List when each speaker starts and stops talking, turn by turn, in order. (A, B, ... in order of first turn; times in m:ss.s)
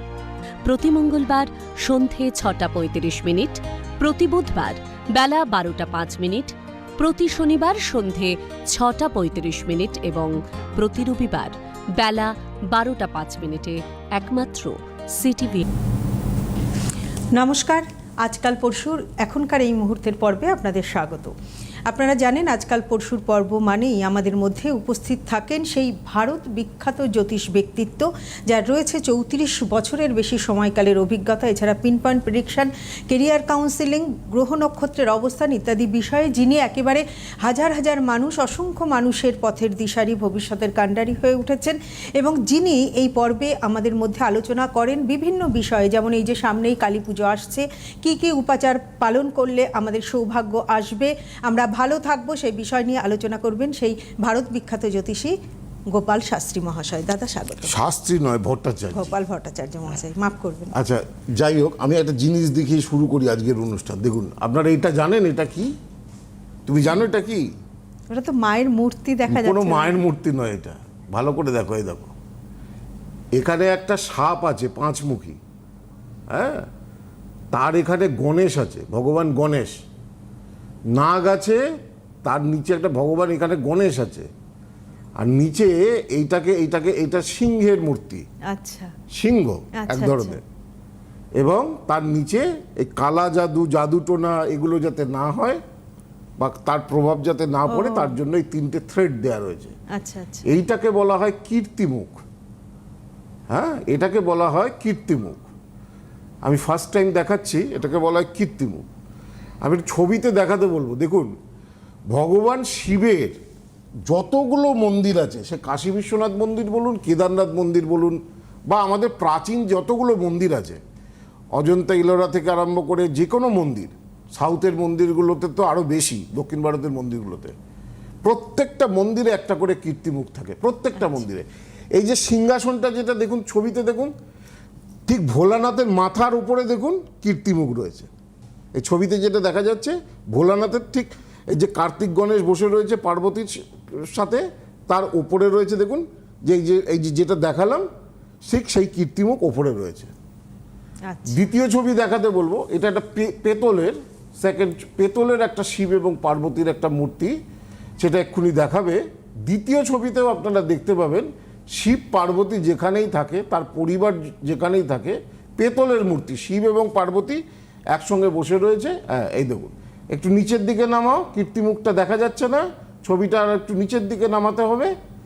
0:00.6-0:15.6 A
0:17.4-0:21.3 B
0:21.9-0:55.4 B
0:55.9-0:57.8 B
0:57.6-0:59.1 C
0:58.9-1:00.8 B
1:00.7-1:05.7 C
1:06.7-1:07.5 C
1:08.1-1:10.0 B
1:09.3-1:12.1 C
1:13.4-1:15.4 C
1:16.3-1:16.7 C
1:17.5-1:19.8 C
1:20.9-1:21.6 C
1:22.2-1:24.3 C
1:25.2-1:28.2 C
1:28.5-1:29.0 B
1:29.1-1:30.4 C
1:29.8-1:30.4 B
1:31.4-1:35.6 C
1:36.4-1:39.8 C
1:37.7-1:38.2 B
1:39.9-1:40.5 B
1:40.5-1:42.2 C
1:43.5-1:45.5 C
1:46.4-1:48.8 C
1:49.6-1:51.3 C
1:52.1-1:53.4 C
1:54.1-2:00.8 C
2:01.6-2:07.6 C
2:08.2-2:14.1 C
2:15.1-2:18.1 C
2:18.7-2:27.9 C
2:28.5-2:30.1 C
2:31.1-2:31.4 B
2:31.3-2:37.4 C
2:38.0-2:55.0 C